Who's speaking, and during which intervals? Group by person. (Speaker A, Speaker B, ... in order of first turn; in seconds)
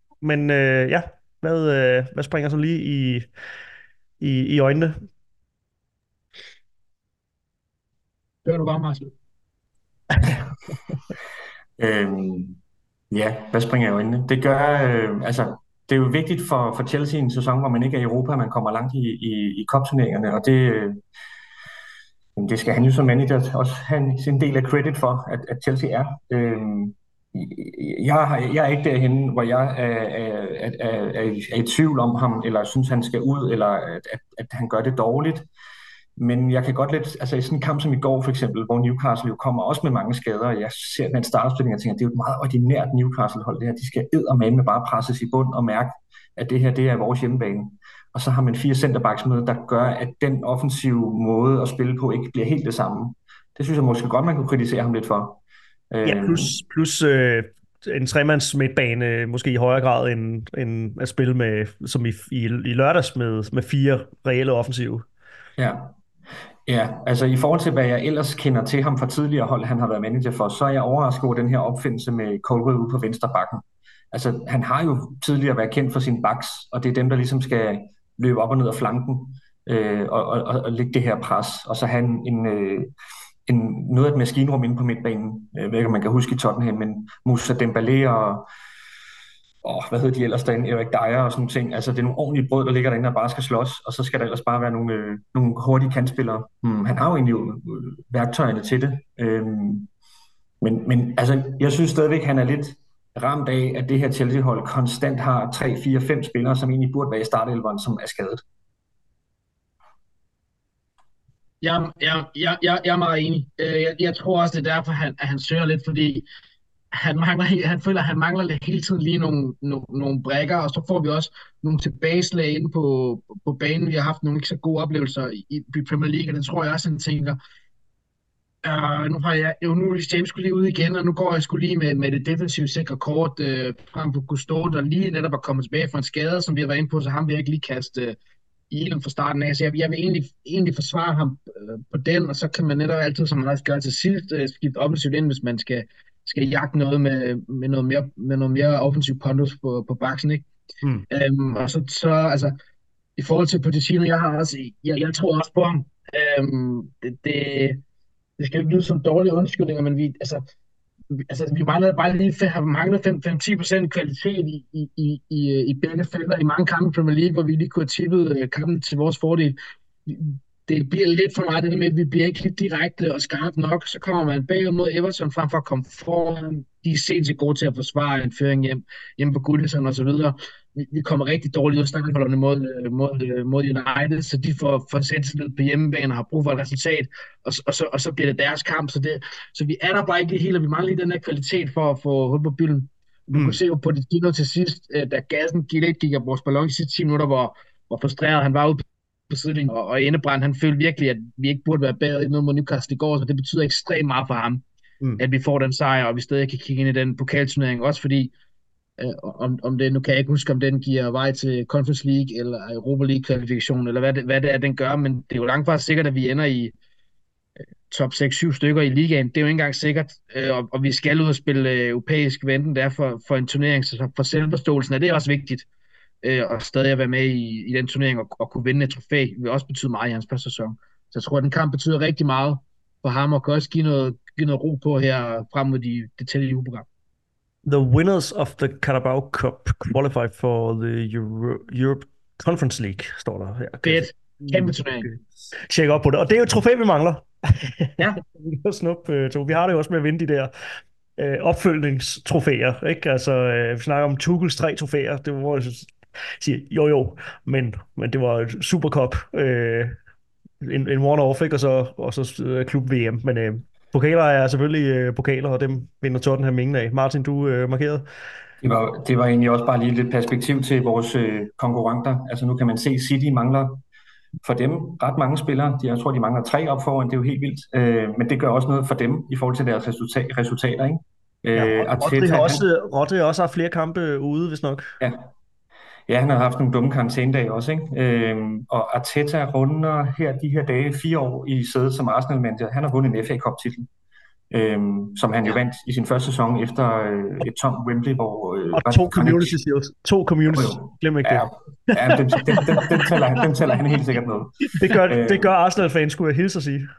Speaker A: 0.2-3.3, 4.2-5.0, 56.0-65.0, 237.7-250.5, 251.2-259.9, 260.6-268.1, 281.6-284.8, 298.7-303.1, 304.7-306.9
Speaker B: 8.4-9.1, 111.6-116.2, 116.9-127.4, 128.6-138.2, 138.7-150.5, 151.1-152.6, 153.2-157.8, 158.4-160.4, 161.1-204.6, 205.2-208.3, 209.0-216.7, 217.9-225.7, 226.2-236.9, 243.8-245.1
Speaker C: 11.8-12.6, 13.1-21.0, 22.4-35.5, 36.2-55.4, 55.9-56.5, 65.6-66.0, 66.7-82.9, 83.5-88.5, 89.6-99.9, 100.6-108.4, 268.6-273.8, 274.4-282.6, 285.0-285.3, 286.1-293.9, 294.5-299.6, 300.5-305.5